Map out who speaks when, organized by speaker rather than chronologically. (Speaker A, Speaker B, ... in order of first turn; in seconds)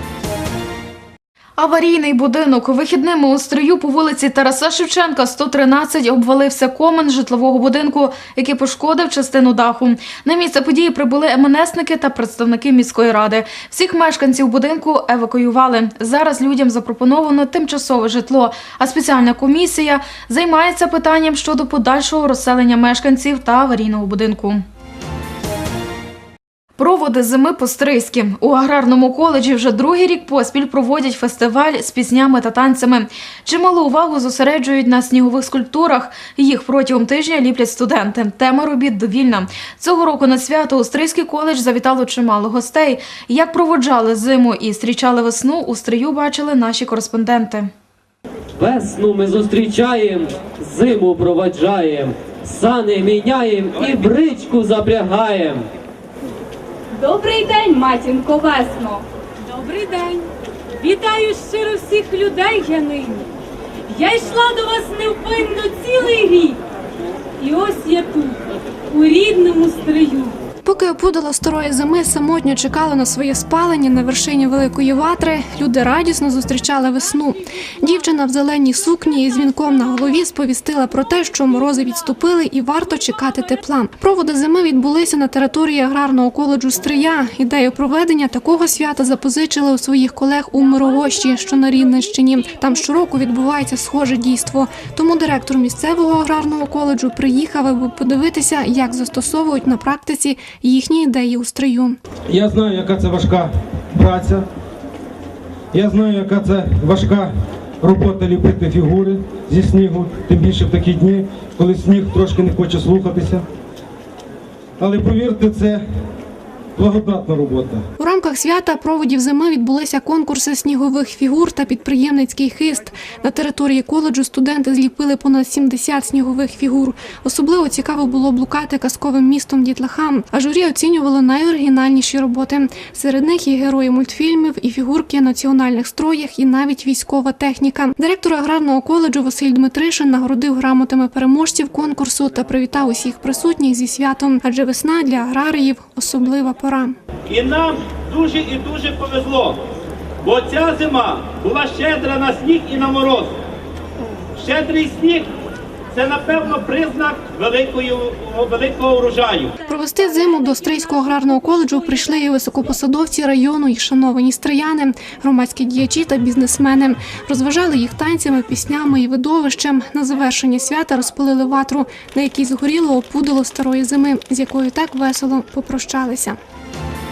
Speaker A: 1.6-24.6, 26.8-47.7
Speaker B: 48.6-55.7
Speaker C: 57.0-60.3, 60.8-63.2, 63.9-66.6, 67.4-68.4, 68.9-70.4
Speaker D: 70.6-102.0, 118.0-147.0, 159.6-176.4
Speaker E: 102.3-104.5, 105.7-113.5, 114.8-115.8, 116.8-117.8
Speaker F: 147.3-149.6, 150.2-153.3, 154.4-155.3, 155.9-159.6